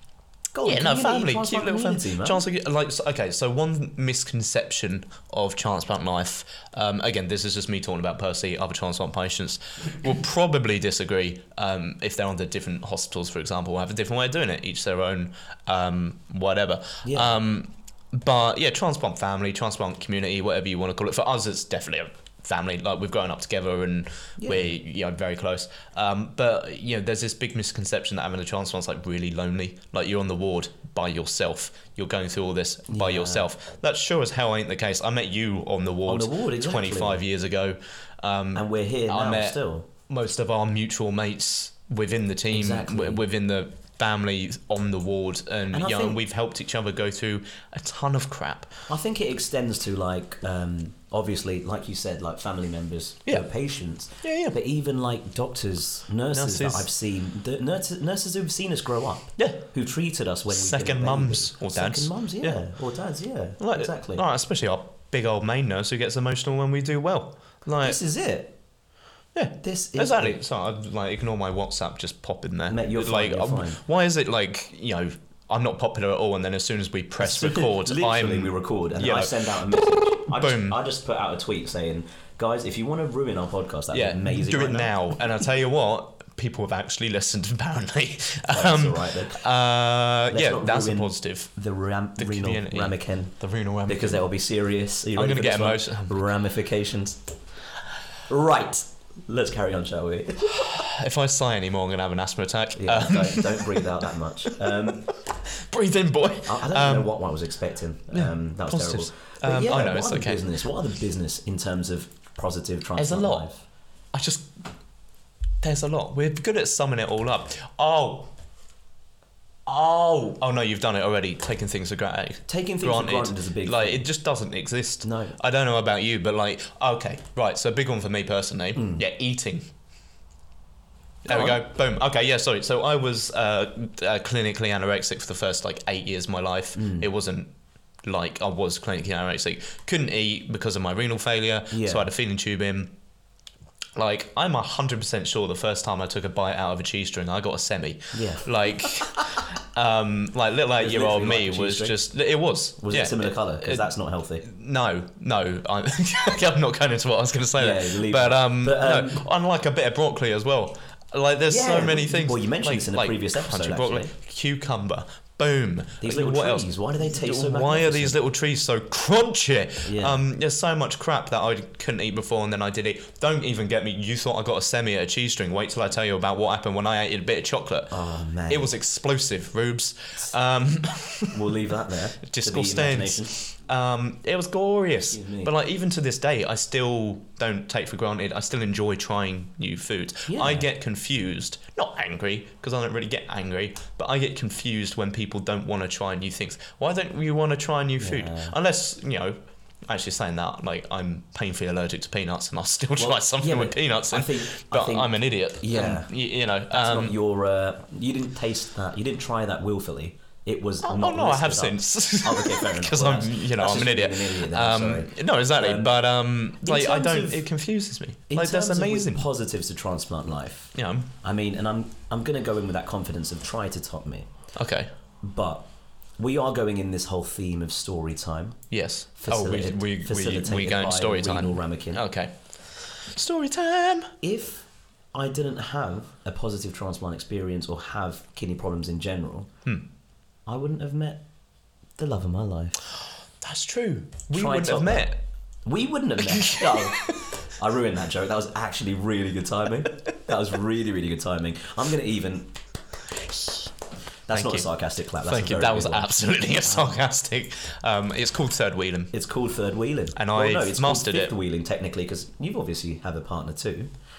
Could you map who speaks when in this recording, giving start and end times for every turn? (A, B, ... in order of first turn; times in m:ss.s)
0:00.5-0:02.4 A
0:00.6-0:48.9 B
0:17.0-0:17.4 A
0:24.4-0:24.7 A
0:32.9-0:33.5 A
0:36.1-0:37.2 A
0:38.6-0:39.9 A
0:42.5-0:43.2 A
0:45.7-0:46.2 A
0:48.9-1:04.2 A
0:54.2-0:54.6 B
0:56.3-0:56.9 B
0:59.4-0:59.6 B
1:00.5-1:02.6 B
1:03.6-1:08.0 B
1:07.8-1:08.6 A
1:09.3-1:19.6 B
1:09.6-1:10.4 A
1:12.7-1:13.8 A
1:17.2-1:24.9 A
1:20.2-1:20.8 B
1:23.9-1:31.5 B
1:28.5-1:29.4 A
1:30.3-1:33.4 A
1:32.2-1:34.3 B
1:33.9-1:37.2 A
1:35.1-1:36.2 B
1:38.3-1:40.8 A
1:40.5-1:43.9 B
1:42.8-1:45.1 A
1:44.5-1:47.2 B
1:46.4-1:53.6 A
1:48.1-1:50.4 B
1:53.0-1:53.5 B
1:54.1-1:54.5 B
1:55.6-1:58.3 B
1:59.7-2:09.7 B
2:02.5-2:04.0 A
2:05.0-2:05.4 A
2:08.8-2:09.0 A
2:11.2-2:17.5 B
2:11.3-2:11.6 A
2:16.8-2:17.1 A
2:18.0-2:22.9 B
2:21.7-2:22.1 A
2:24.0-2:33.9 B
2:28.1-2:28.5 A
2:30.8-2:32.0 A
2:32.8-2:34.5 A
2:34.4-2:57.9 B
2:37.6-2:39.2 A
2:41.5-2:44.1 A
2:46.0-2:48.2 A
2:49.8-2:50.2 A
2:57.9-2:58.7 A
2:58.5-3:01.4 B
3:01.3-3:03.4 A
3:02.2-3:27.1 B
3:05.1-3:05.5 A
3:10.3-3:10.7 A
3:18.0-3:18.6 A
3:23.0-3:26.1 A
3:26.7-3:36.0 A
3:30.8-3:39.3 B
3:36.6-3:37.4 A
3:38.3-3:44.3 A
3:40.8-3:41.1 B
3:44.6-3:44.9 B
3:45.2-3:45.7 A
3:46.2-3:48.6 A
3:48.7-3:54.1 B
3:49.2-3:52.0 A
3:54.2-3:59.5 A
4:00.5-4:01.2 A
4:02.0-4:02.8 A
4:03.4-4:05.2 B
4:04.3-4:05.1 A
4:05.6-4:12.5 A
4:06.2-4:07.3 B
4:13.2-4:13.7 B
4:14.3-4:17.0 A
4:14.3-4:14.7 B
4:15.2-4:19.1 B
4:19.1-4:23.9 A
4:20.2-4:21.3 B